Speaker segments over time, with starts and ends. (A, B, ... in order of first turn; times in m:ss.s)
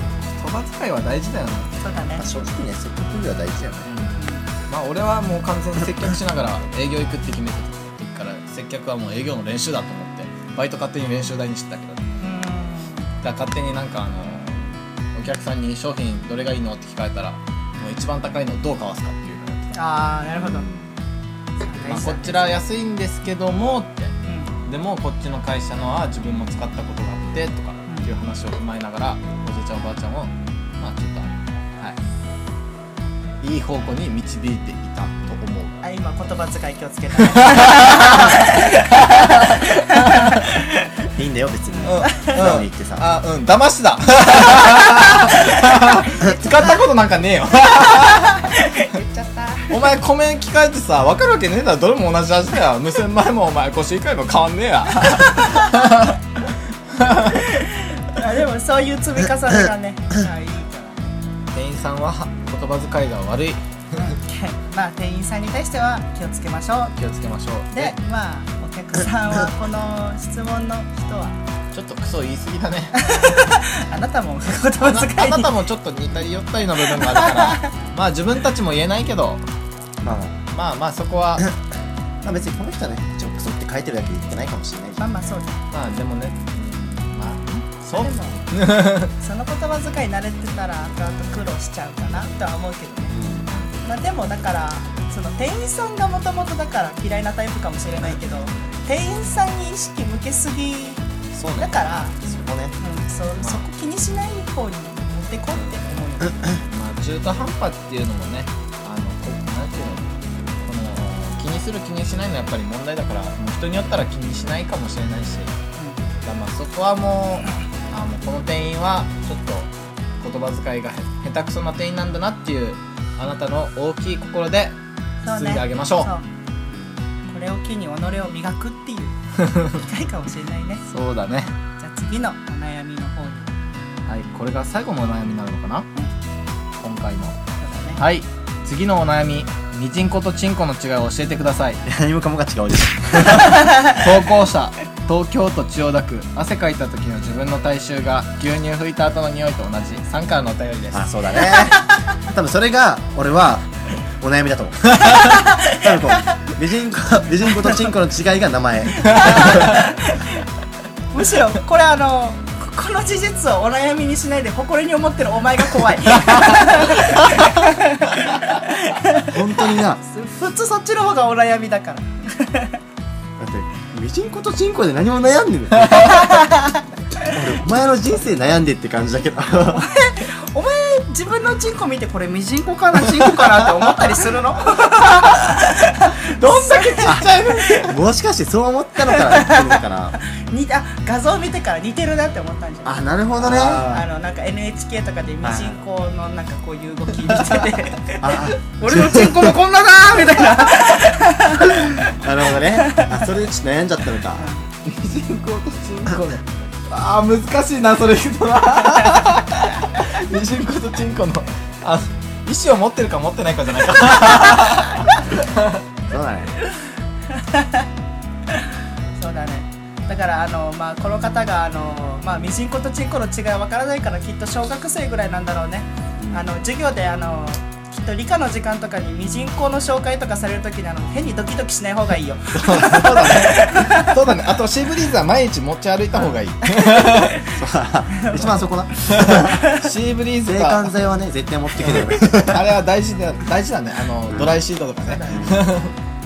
0:00.3-0:01.8 A
0:01.8-0:02.2 B
0:02.2-0:03.9 C
0:03.9-0:04.2 A
0:04.2-0:04.5 B
0:04.7-0:12.0 A
0:12.2-0:13.1 B
0:13.2-0:19.7 A
0:19.7-0:20.7 B
0:20.4-0:20.9 C
0:21.6-0:22.6 B
0:21.9-0:24.1 A
0:24.2-0:24.5 B
0:24.7-0:32.0 A
0:33.4-0:35.8 A
0:35.8-0:40.8 B
0:37.3-0:40.3 A
0:41.2-0:43.2 C
0:41.7-0:42.4 B
0:41.8-0:48.6 A
0:48.3-0:49.9 B
0:49.7-0:56.2 A
0:55.1-0:55.9 B
0:57.0-0:57.4 A
0:57.3-1:01.2 B
1:01.5-1:04.1 A
1:04.0-1:06.9 B
1:07.0-1:08.0 A
1:07.7-1:11.4 B
1:11.7-1:13.0 A
1:13.0-1:15.5 B
1:14.8-1:19.4 A
1:17.0-1:17.7 B
1:20.0-1:20.4 C
1:20.5-1:21.4 A
1:22.2-1:25.0 C
1:25.0-1:25.6 B
1:25.7-1:29.1 A
1:27.9-1:28.5 B
1:29.2-1:33.2 B
1:33.1-1:33.5 C
1:33.8-1:41.1 B
1:41.3-1:42.8 C
1:41.6-1:42.2 B
1:42.8-1:46.6 B
1:46.7-1:50.1 A
1:50.6-1:55.5 A
1:56.2-1:59.7 A
2:00.2-2:04.8 A
2:05.2-2:06.2 B
2:05.3-2:06.1 A
2:07.3-2:10.8 B
2:09.4-2:09.7 A
2:10.9-2:11.5 A
2:11.8-2:13.5 B
2:14.1-2:15.9 A
2:16.8-2:17.4 A
2:17.6-2:18.0 B
2:18.0-2:21.8 A
2:21.9-2:23.7 C
2:23.4-2:31.3 A
2:30.9-2:33.7 C
2:34.2-2:35.1 C
2:35.1-2:36.2 B
2:35.6-2:39.8 C
2:39.0-2:40.4 B
2:41.1-2:49.3 B
2:49.2-2:50.0 C
2:50.0-2:52.8 B
2:53.4-2:56.4 C
2:56.0-2:56.8 B
2:57.2-2:59.9 C
2:59.7-3:07.8 B
3:06.4-3:08.0 A
3:07.0-3:10.2 C
3:09.0-3:22.1 B
3:12.8-3:14.1 C
3:15.4-3:15.8 C
3:18.2-3:19.6 C
3:22.0-3:24.5 C
3:22.8-3:23.2 B
3:24.4-3:24.7 B
3:24.8-3:35.8 A
3:36.1-3:36.5 C
3:37.3-3:37.9 B
3:38.5-3:54.2 B
3:46.2-3:46.5 C
3:52.5-3:57.4 A
3:56.8-3:57.5 B
3:57.5-3:59.7 C
3:58.2-3:58.5 B
3:59.1-4:01.0 A
3:59.5-3:59.8 B
4:00.4-4:02.7 C
4:01.8-4:05.9 A
4:05.0-4:05.7 B
4:05.3-4:05.6 C